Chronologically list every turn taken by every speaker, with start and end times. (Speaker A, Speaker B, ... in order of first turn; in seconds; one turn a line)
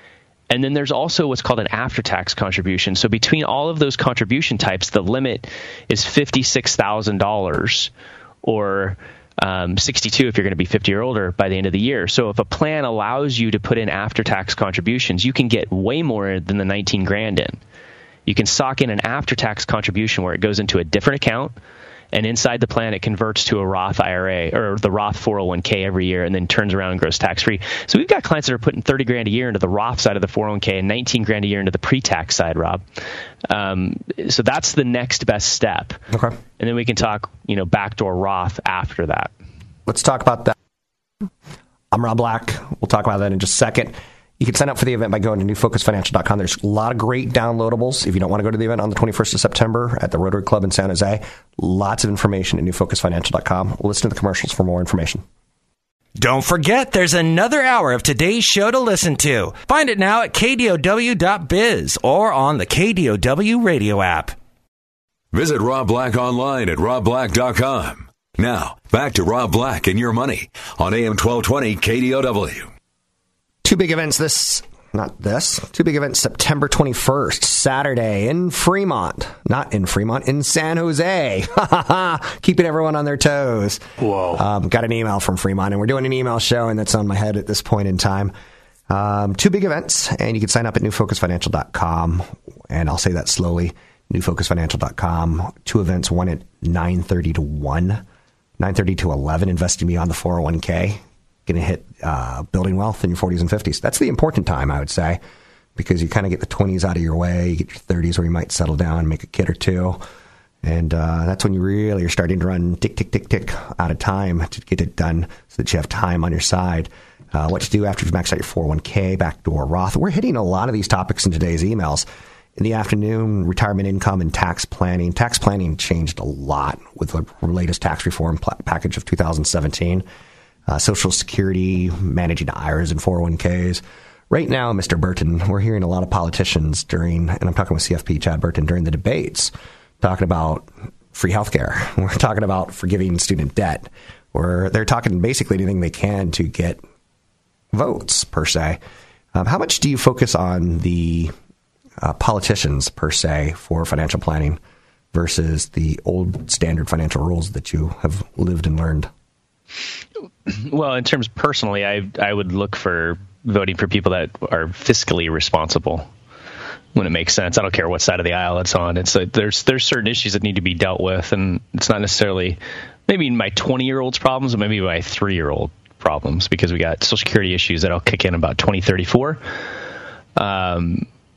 Speaker A: 0.5-7.9
Speaker A: 8.4-17.6
Speaker A: 18.2-21.5
Speaker A: 22.1-32.8
Speaker A: 33.5-36.0
Speaker B: 36.1-36.4
Speaker A: 36.6-39.3
Speaker B: 39.9-40.5
Speaker B: 41.9-55.2
Speaker C: 56.2-64.3
Speaker D: 65.3-72.7
Speaker B: 73.6-88.3
Speaker B: 88.9-98.0
Speaker B: 98.6-105.2
Speaker B: 105.8-110.0
Speaker B: 110.6-130.0
Speaker B: 130.7-146.8
Speaker B: 147.7-148.8
Speaker B: 149.3-151.3
Speaker B: 152.0-154.6
Speaker B: 155.1-159.1
Speaker A: 160.5-166.1
Speaker A: 166.9-179.4
Speaker A: 180.4-181.1